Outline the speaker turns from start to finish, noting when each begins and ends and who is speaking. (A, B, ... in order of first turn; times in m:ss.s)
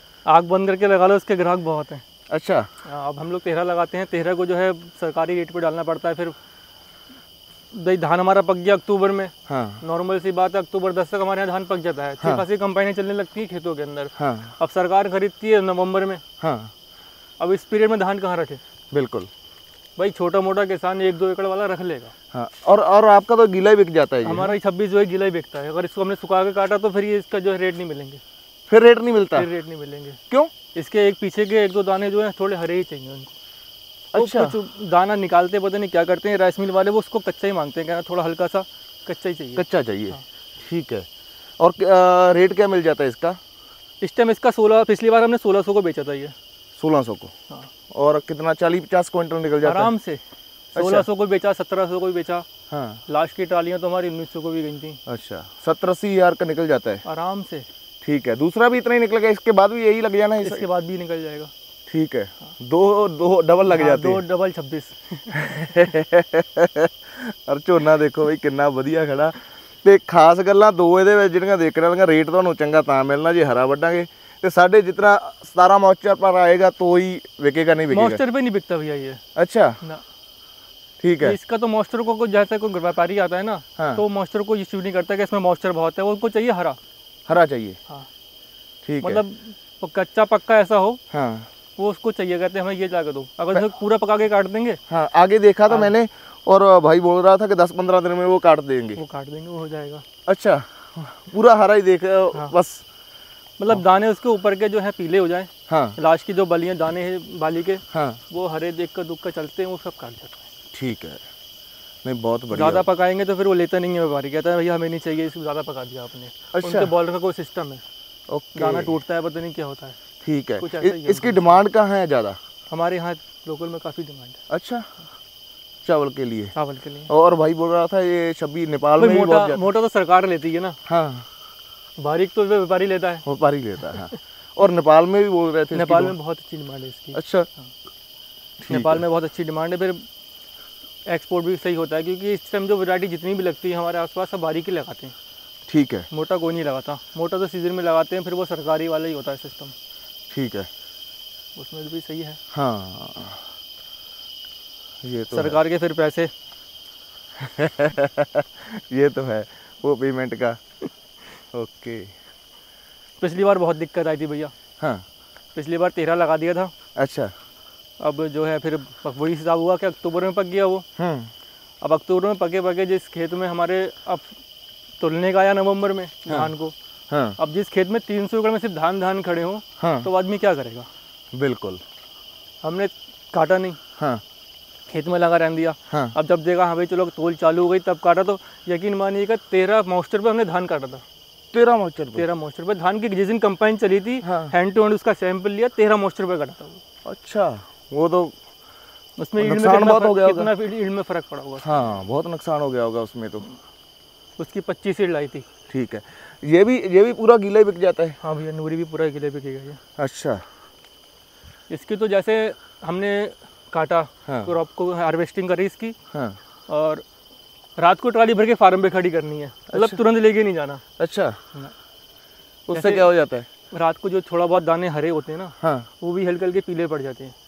0:00.2-0:02.0 A
0:02.3-0:02.7 B
0:02.8-0:06.3 A
0:07.7-0:16.2 A
0:09.5-0:09.8 B
0:12.2-0:12.4 B
0:14.2-0:14.5 B
0:16.4-0:16.7 B
0:17.4-0:18.6 A
0:18.9-0:19.3 B
0:20.0-0:22.1 A
0:22.3-0:24.5 B
0:24.2-0:28.2 A
0:28.7-0:29.5 B
0:29.3-0:30.2 A
0:30.7-0:33.3 A
0:34.1-0:34.6 B
0:34.1-0:40.2 A
0:39.6-0:41.1 B
0:41.6-0:43.4 B
0:44.0-0:46.3 A
0:46.8-0:47.3 B
0:47.9-0:49.9 B
0:49.6-0:50.2 A
0:50.7-0:51.1 B
0:50.7-0:52.4 A
0:52.7-0:53.0 B
0:53.1-0:55.0 A
0:55.1-0:57.0 B
0:57.0-0:57.6 A
0:58.0-1:00.6 B
1:00.4-1:01.5 A
1:01.9-1:04.2 B
1:03.7-1:05.9 A
1:05.3-1:18.2 B
1:17.9-1:19.2 A
1:19.4-1:19.8 B
1:21.0-1:21.4 B
1:21.2-1:26.8 A
1:23.8-1:24.0 B
1:27.3-1:27.8 B
1:28.8-1:29.2 B
1:29.0-1:31.0 A
1:31.1-1:31.5 B
1:31.8-1:34.8 A
1:34.9-1:39.0 B
1:35.7-1:35.9 A
1:39.0-1:40.0 A
1:40.3-1:42.8 B
1:43.6-1:50.5 A
1:45.7-1:46.0 B
1:47.9-1:48.2 B
1:50.7-1:51.2 B
1:52.0-1:52.8 B
1:52.5-1:57.8 A
1:56.5-1:56.9 B
1:58.3-1:59.0 B
1:58.5-2:00.0 A
2:00.2-2:02.4 B
2:00.6-2:01.6 A
2:02.7-2:04.4 A
2:04.5-2:04.8 B
2:05.8-2:06.5 B
2:06.5-2:07.1 A
2:07.1-2:09.6 B
2:09.0-2:10.8 A
2:10.9-2:11.2 B
2:12.0-2:13.2 A
2:13.2-2:16.1 B
2:15.7-2:17.7 A
2:17.1-2:17.5 B
2:18.6-2:19.0 B
2:18.6-2:20.0 A
2:21.0-2:25.1 A
2:25.7-2:26.1 B
2:26.1-2:29.7 A
2:30.3-2:30.7 B
2:31.6-2:32.4 A
2:32.5-2:33.4 B
2:35.0-2:35.6 B
2:35.3-2:36.3 A
2:37.4-2:40.6 B
2:41.5-2:42.1 B
2:43.2-2:44.5 A
2:45.5-2:46.7 A
2:47.0-2:47.3 B
2:48.0-2:50.8 A
2:51.0-2:51.3 B
2:51.8-2:54.4 A
2:55.0-2:56.7 A
2:57.1-2:57.4 B
2:57.4-3:00.9 A
2:59.8-3:00.1 B
3:01.3-3:01.8 B
3:02.6-3:03.8 A
3:04.0-3:04.2 B
3:04.9-3:11.0 A
3:05.9-3:06.2 B
3:11.5-3:12.3 B
3:12.1-3:16.8 A
3:14.2-3:14.5 B
3:17.0-3:18.3 B
3:19.2-3:21.9 A
3:19.4-3:20.5 B
3:21.6-3:23.5 B
3:24.4-3:25.4 A
3:25.7-3:28.2 B
3:28.2-3:29.8 A
3:30.0-3:30.4 B
3:31.7-3:36.0 A
3:34.2-3:34.5 B
3:36.1-3:36.4 B
3:36.7-3:37.0 A
3:37.8-3:40.8 A
3:39.7-3:40.0 B
3:41.0-3:41.4 B
3:42.7-3:43.5 B
3:42.7-3:43.1 A
3:43.7-3:47.3 A
3:45.6-3:45.9 B